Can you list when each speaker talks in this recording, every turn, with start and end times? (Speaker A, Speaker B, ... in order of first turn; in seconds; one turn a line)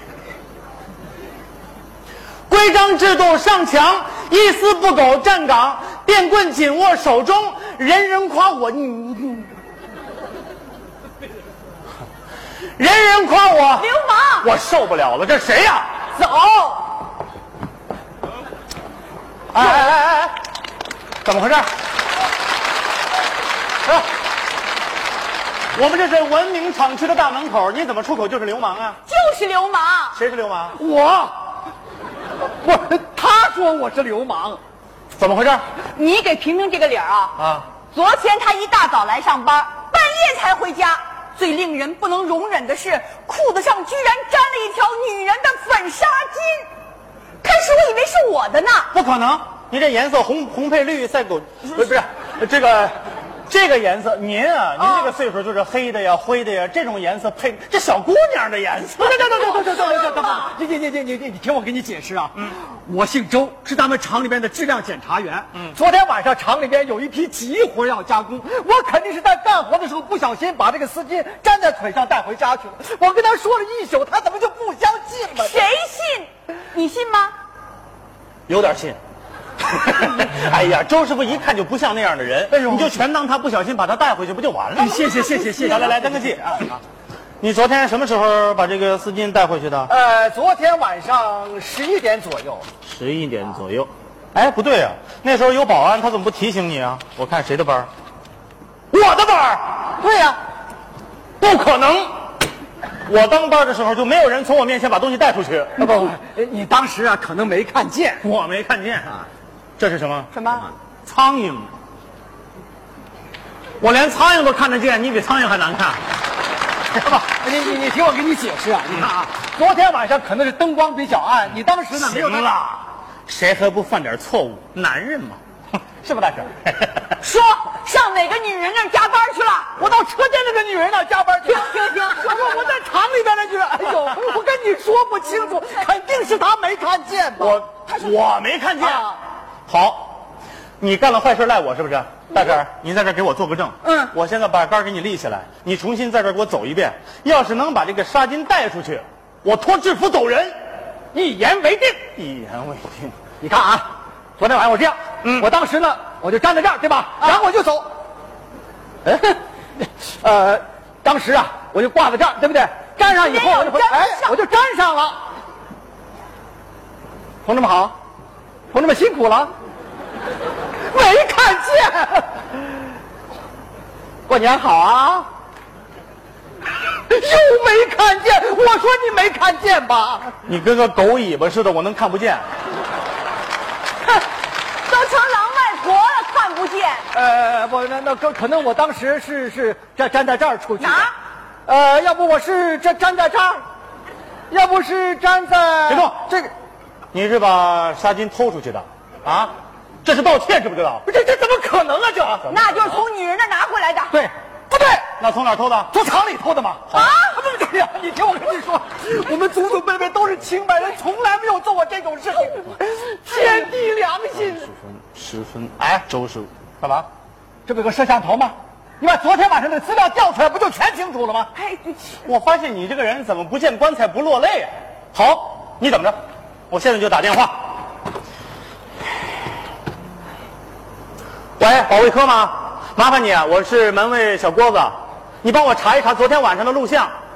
Speaker A: 2.5-9.5
Speaker A: 12.8-15.9
Speaker B: 13.8-14.5
Speaker B: 16.1-16.9
Speaker A: 19.5-20.3
Speaker A: 21.2-21.7
Speaker A: 25.7-29.0
Speaker B: 29.1-30.2
Speaker A: 30.1-30.8
Speaker C: 30.7-31.5
Speaker C: 32.6-34.6
Speaker A: 35.1-35.6
Speaker B: 35.9-37.4
Speaker A: 37.4-37.7
Speaker B: 37.9-46.7
Speaker B: 47.4-48.9
Speaker A: 48.9-52.9
Speaker A: 53.5-59.6
Speaker B: 54.8-55.1
Speaker C: 59.0-75.7
Speaker B: 75.3-77.3
Speaker A: 78.5-79.0
Speaker A: 79.6-86.6
Speaker C: 82.5-83.0
Speaker C: 84.8-86.8
Speaker A: 87.4-89.9
Speaker C: 89.9-92.7
Speaker A: 92.8-97.9
Speaker A: 98.9-99.9
Speaker C: 100.0-100.4
Speaker A: 101.4-102.1
Speaker A: 103.0-106.0
Speaker C: 105.8-108.2
Speaker A: 108.2-110.4
Speaker B: 110.3-110.7
Speaker A: 111.0-111.7
Speaker A: 113.8-116.0
Speaker C: 117.0-122.5
Speaker A: 121.9-125.4
Speaker A: 126.0-127.2
Speaker B: 127.2-129.8
Speaker C: 129.8-137.6
Speaker B: 131.4-132.7
Speaker A: 137.4-139.2
Speaker C: 138.8-139.1
Speaker A: 139.7-140.3
Speaker A: 140.8-150.6
Speaker B: 143.8-144.1
Speaker C: 151.1-152.0
Speaker A: 152.1-153.2
Speaker C: 153.4-157.9
Speaker A: 155.2-155.5
Speaker C: 159.1-165.2
Speaker B: 163.0-164.4
Speaker C: 167.4-167.9
Speaker C: 168.7-169.5
Speaker C: 170.9-172.6
Speaker C: 174.3-175.3
Speaker C: 177.1-180.3
Speaker A: 180.4-182.5
Speaker B: 184.8-187.1
Speaker C: 187.1-191.1
Speaker B: 190.8-191.1
Speaker C: 191.7-193.6
Speaker C: 194.5-196.5
Speaker A: 195.9-196.1
Speaker A: 197.1-201.0
Speaker C: 201.1-202.5
Speaker A: 202.4-202.8
Speaker B: 202.5-204.2
Speaker C: 204.1-205.1
Speaker A: 205.2-205.9
Speaker C: 205.9-214.7
Speaker B: 206.9-207.3
Speaker B: 213.2-213.7
Speaker A: 214.7-217.1
Speaker C: 217.7-221.5
Speaker B: 221.5-222.2
Speaker A: 222.2-226.2
Speaker A: 226.7-227.8
Speaker A: 231.6-237.1